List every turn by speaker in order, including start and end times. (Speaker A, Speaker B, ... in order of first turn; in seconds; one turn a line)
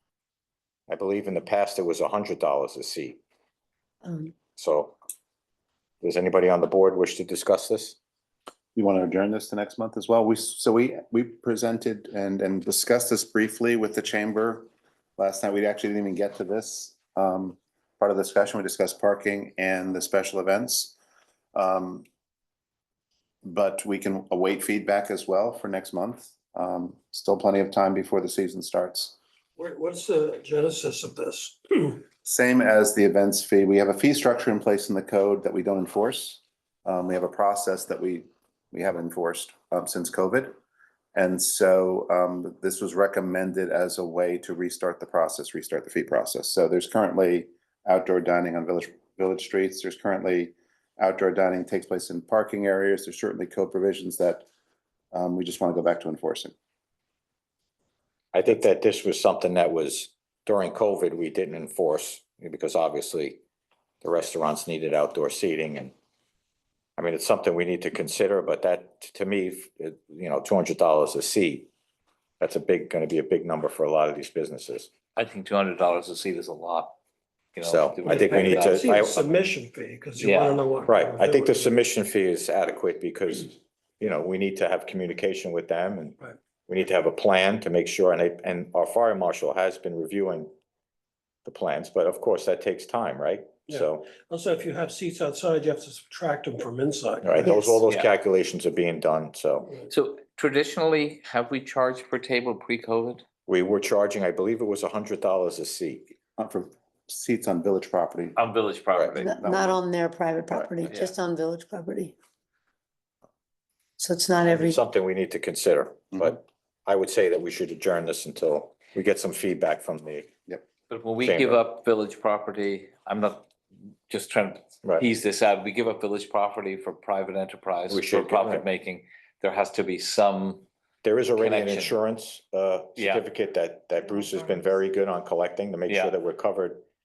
Speaker A: 0.9-3.2
Speaker B: 4.0-4.3
Speaker A: 4.6-5.0
Speaker A: 6.0-8.0
Speaker C: 8.8-20.9
Speaker C: 21.5-22.1
Speaker C: 23.4-29.2
Speaker D: 29.6-32.0
Speaker C: 32.2-40.5
Speaker C: 41.1-54.5
Speaker C: 55.1-56.5
Speaker A: 58.3-63.4
Speaker A: 64.0-65.9
Speaker A: 67.0-71.7
Speaker A: 72.4-74.9
Speaker E: 75.2-77.0
Speaker E: 77.5-78.8
Speaker A: 77.6-79.2
Speaker D: 78.1-81.8
Speaker E: 80.2-80.6
Speaker A: 80.9-86.2
Speaker A: 86.7-90.5
Speaker A: 91.5-94.1
Speaker D: 93.7-97.6
Speaker A: 97.2-99.7
Speaker E: 99.9-103.2
Speaker A: 103.5-106.2
Speaker C: 106.4-108.4
Speaker E: 108.4-109.3
Speaker A: 109.0-109.3
Speaker B: 109.2-112.1
Speaker C: 109.3-109.8
Speaker C: 110.5-110.8
Speaker B: 114.0-114.8
Speaker A: 114.5-120.3
Speaker E: 120.9-123.5
Speaker A: 121.2-121.6
Speaker E: 124.1-130.7
Speaker A: 127.9-128.7
Speaker A: 131.0-136.8
Speaker E: 131.4-131.9
Speaker E: 133.0-133.2
Speaker E: 135.9-136.2